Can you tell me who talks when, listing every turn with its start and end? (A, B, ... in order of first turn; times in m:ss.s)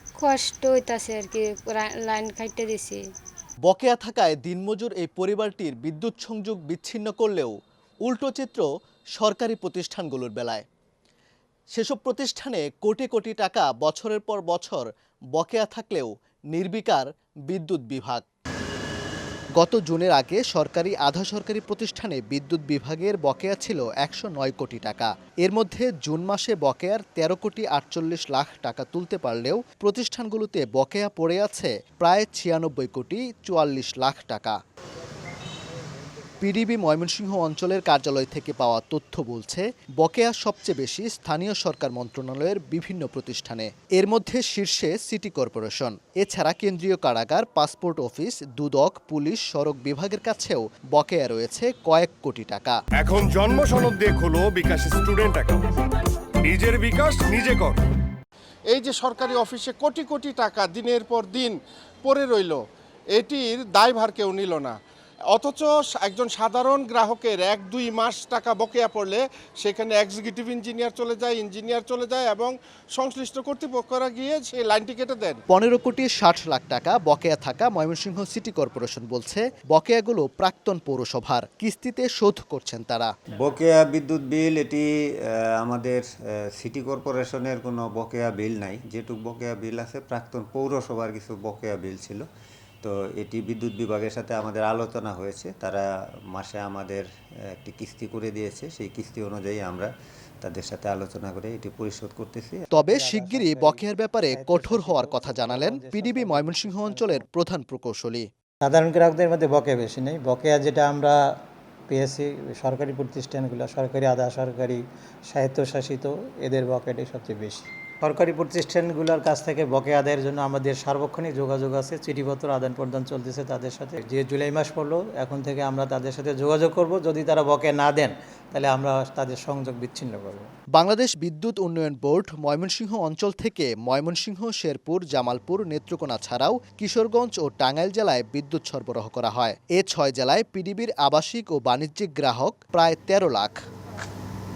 0:00.2-0:03.0 A
0:03.7-0:08.6 B
0:09.2-0:10.6 B
0:11.7-0:18.2 B
0:19.6-0:34.6 B
0:36.4-0:52.8 B
0:53.0-0:55.8 C
0:56.4-0:57.8 C
0:58.7-1:02.6 D
1:03.1-1:04.8 D
1:05.3-1:15.4 D
1:15.5-1:23.1 B
1:23.4-1:32.2 E
1:32.8-1:37.1 E
1:37.6-1:39.9 E
1:40.4-1:42.6 E
1:42.7-1:48.3 B
1:42.7-1:47.2 F
1:48.6-1:51.4 F
1:51.9-2:10.5 F
2:10.8-2:23.6 B